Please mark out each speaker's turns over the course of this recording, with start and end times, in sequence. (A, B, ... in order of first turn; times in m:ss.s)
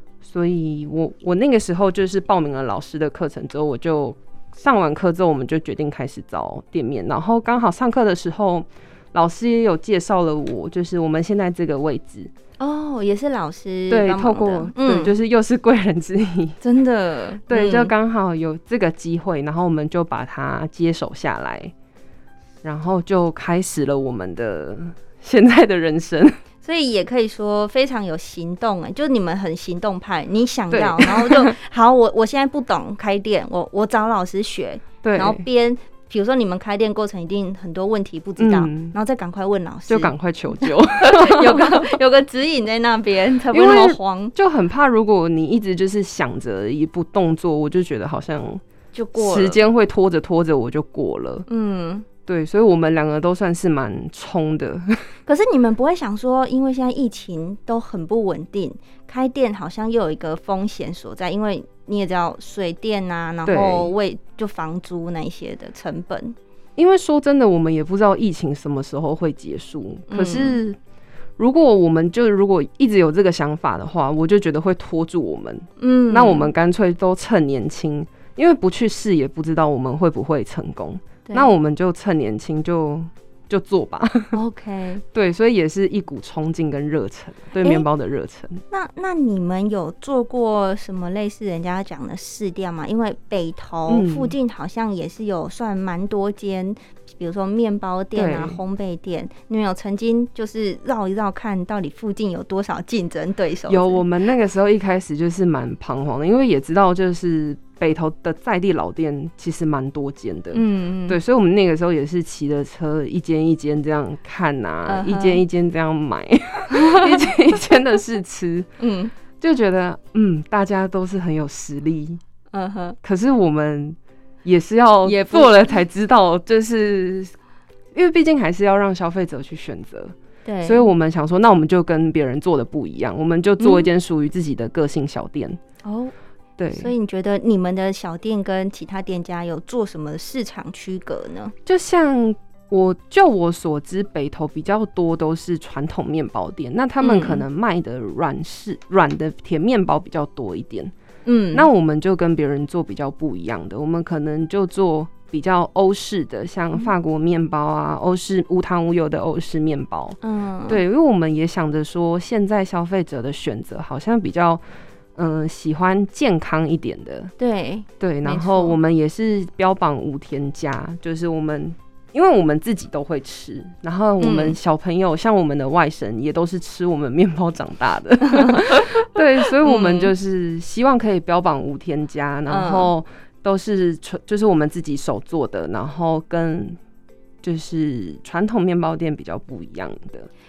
0:00.2-0:12.3 A
0:12.6-0:15.1 B
0:13.9-0:16.6 A
0:16.6-0:17.9 B
0:17.5-0:21.7 A
0:22.6-0:26.4 A
0:26.6-0:44.3 B
0:30.7-0:31.5 A
0:35.0-0:35.4 A
0:38.4-0:38.9 A
0:39.9-0:42.0 A
0:43.5-0:48.6 A
0:48.9-0:49.6 B
0:49.2-0:51.5 A
0:51.5-0:52.0 B
0:52.3-0:55.1 A
0:55.3-1:06.4 B
1:03.4-1:03.9 A
1:06.8-1:10.8 A
1:10.1-1:10.6 B
1:11.4-1:24.4 A
1:15.8-1:16.5 B
1:21.2-1:21.5 B
1:24.3-1:25.0 B
1:25.1-1:28.6 A
1:28.7-1:44.0 B
1:33.9-1:34.3 A
1:38.1-1:38.6 A
1:43.7-1:58.7 A
1:50.5-1:51.2 B
1:54.8-1:55.4 B
1:56.7-1:57.2 B
1:58.8-1:59.1 B
1:59.4-2:02.2 A
2:02.5-2:03.0 B
2:03.0-2:07.3 A
2:05.0-2:05.8 B
2:07.9-2:15.6 A
2:10.4-2:10.9 B
2:13.6-2:13.9 B
2:15.8-2:16.1 B
2:16.6-2:16.9 A
2:16.7-2:21.5 B
2:21.6-2:30.9 A
2:27.0-2:27.4 B
2:31.2-2:31.7 B
2:31.5-2:44.6 A
2:40.2-2:40.8 B
2:45.2-2:47.3 A
2:47.4-2:48.8 B
2:48.0-3:06.8 A
2:54.2-2:54.6 B
2:58.3-2:58.7 B
2:59.6-3:00.1 B
3:02.5-3:02.9 B
3:07.4-3:10.3 A